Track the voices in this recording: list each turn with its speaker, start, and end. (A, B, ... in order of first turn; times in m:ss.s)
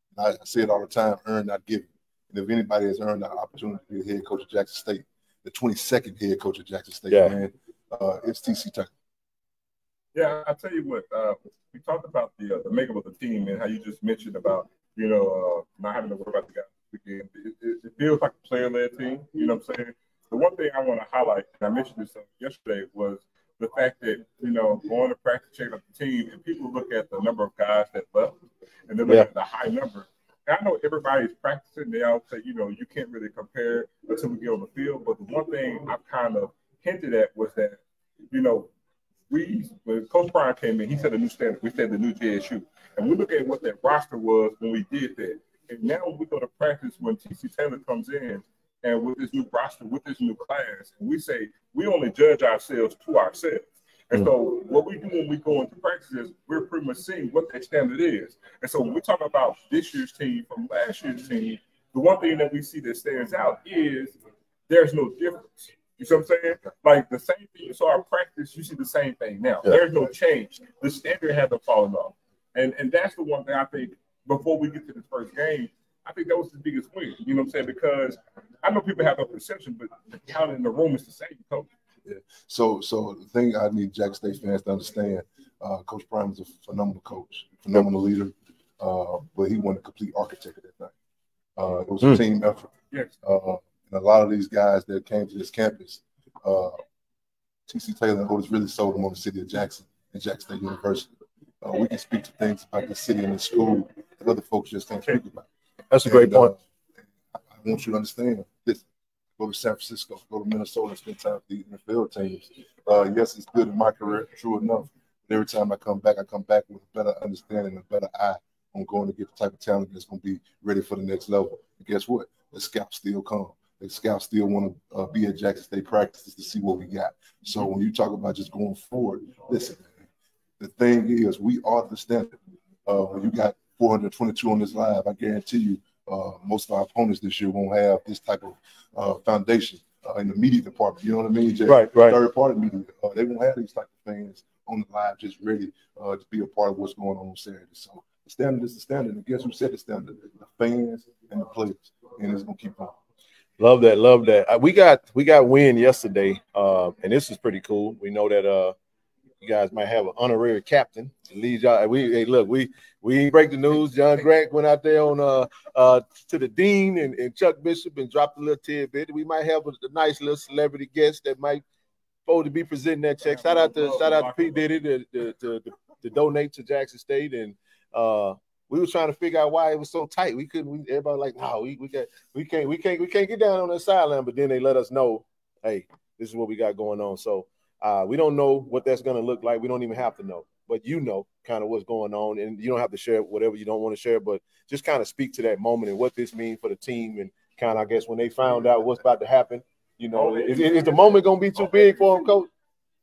0:00.2-0:08.9 A
0:07.1-0:07.4 B
0:10.1-0:28.4 C
0:28.9-0:38.7 C
0:39.3-1:21.7 C
1:22.1-1:30.9 A
1:31.6-1:32.7 A
1:33.2-1:36.8 A
1:37.7-1:41.1 A
1:41.6-1:45.5 A
1:45.9-1:46.5 B
1:46.0-1:46.6 A
1:47.5-1:48.8 A
1:49.4-2:10.0 A
2:10.6-2:32.9 A
2:21.7-2:22.2 B
2:33.6-2:38.7 B
2:39.4-2:51.6 B
2:52.3-3:22.5 B
2:53.2-2:54.8 C
3:20.1-3:21.2 C